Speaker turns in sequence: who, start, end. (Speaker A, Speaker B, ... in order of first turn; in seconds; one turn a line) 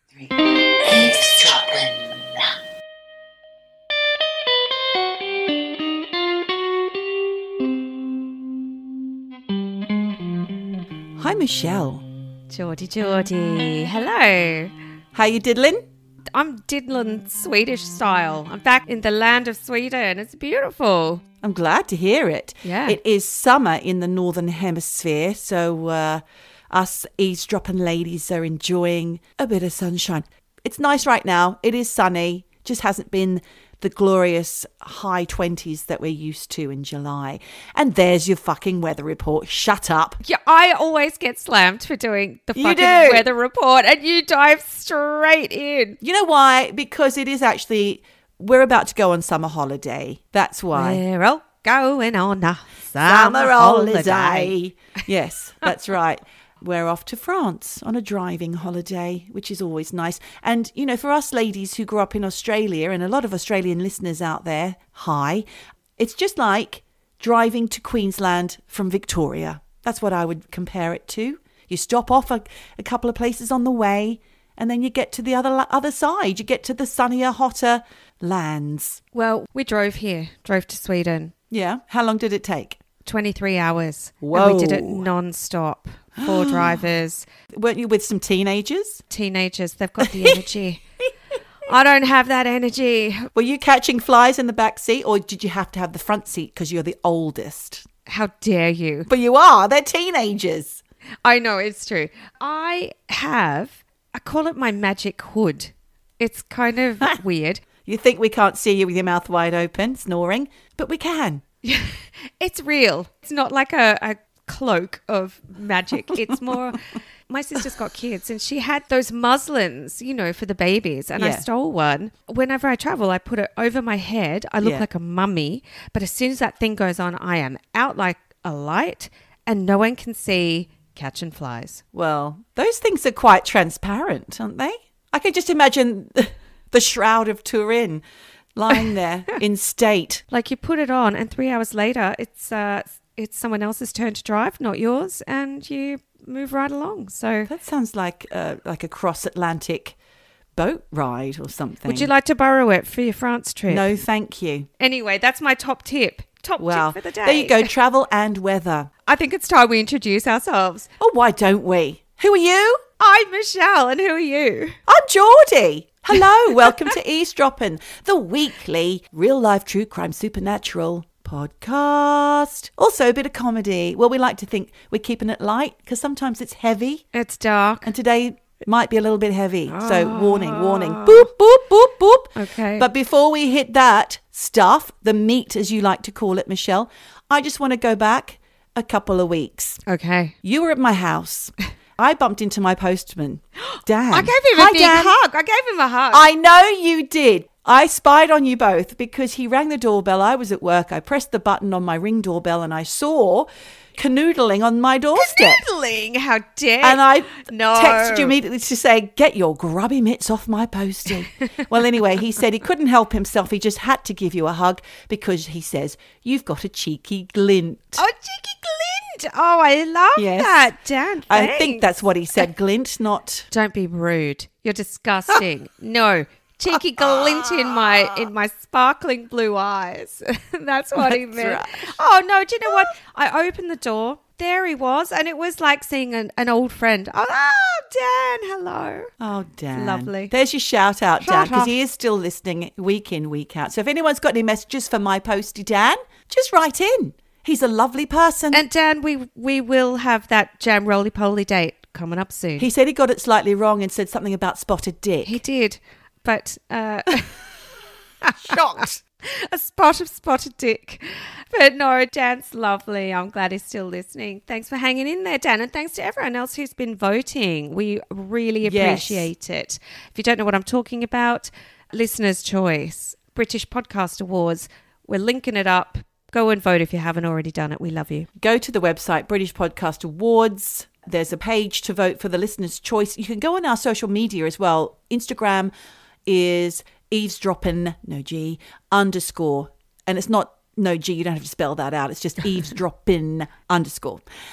Speaker A: 0.2-2.5
Speaker B: 11.2-12.1
Speaker C: 12.5-14.8
Speaker B: 15.1-15.9
Speaker C: 16.3-21.2
Speaker B: 21.4-40.2
Speaker C: 22.6-23.0
Speaker C: 40.2-46.0
Speaker B: 42.6-43.3
Speaker B: 46.0-51.0
Speaker C: 50.7-54.5
Speaker B: 53.0-65.5
Speaker B: 66.0-79.0
Speaker C: 79.1-81.3
Speaker B: 81.5-82.8
Speaker C: 83.0-87.2
Speaker B: 84.2-85.1
Speaker B: 86.2-86.9
Speaker B: 87.5-89.0
Speaker C: 89.1-90.8
Speaker B: 90.0-90.4
Speaker C: 91.7-93.3
Speaker B: 93.3-97.9
Speaker C: 98.1-99.1
Speaker B: 99.1-100.8
Speaker C: 101.2-107.6
Speaker B: 107.8-111.4
Speaker C: 111.6-131.8
Speaker B: 121.2-121.5
Speaker B: 131.9-138.0
Speaker B: 138.5-140.2
Speaker C: 140.3-147.5
Speaker B: 147.5-149.9
Speaker B: 150.6-152.1
Speaker C: 151.8-153.8
Speaker B: 153.7-154.7
Speaker C: 154.8-157.7
Speaker B: 156.6-158.9
Speaker C: 159.1-160.9
Speaker B: 161.0-162.8
Speaker C: 163.0-164.8
Speaker B: 164.9-177.0
Speaker C: 177.1-177.9
Speaker B: 177.8-189.8
Speaker C: 179.7-181.2
Speaker C: 182.3-182.9
Speaker C: 189.8-190.3
Speaker B: 190.4-195.1
Speaker C: 194.1-196.2
Speaker B: 196.1-205.7
Speaker C: 205.2-208.3
Speaker B: 206.8-218.1
Speaker C: 218.0-221.8
Speaker B: 220.2-220.6
Speaker B: 221.3-223.5
Speaker C: 223.5-239.1
Speaker B: 226.7-228.3
Speaker B: 230.9-232.0
Speaker B: 239.2-248.6
Speaker C: 239.7-240.3
Speaker C: 241.2-241.7
Speaker C: 248.5-252.7
Speaker B: 252.6-255.4
Speaker C: 255.2-257.4
Speaker C: 258.2-278.3
Speaker B: 258.4-259.0
Speaker B: 268.6-269.3
Speaker B: 278.4-285.7
Speaker B: 286.2-294.2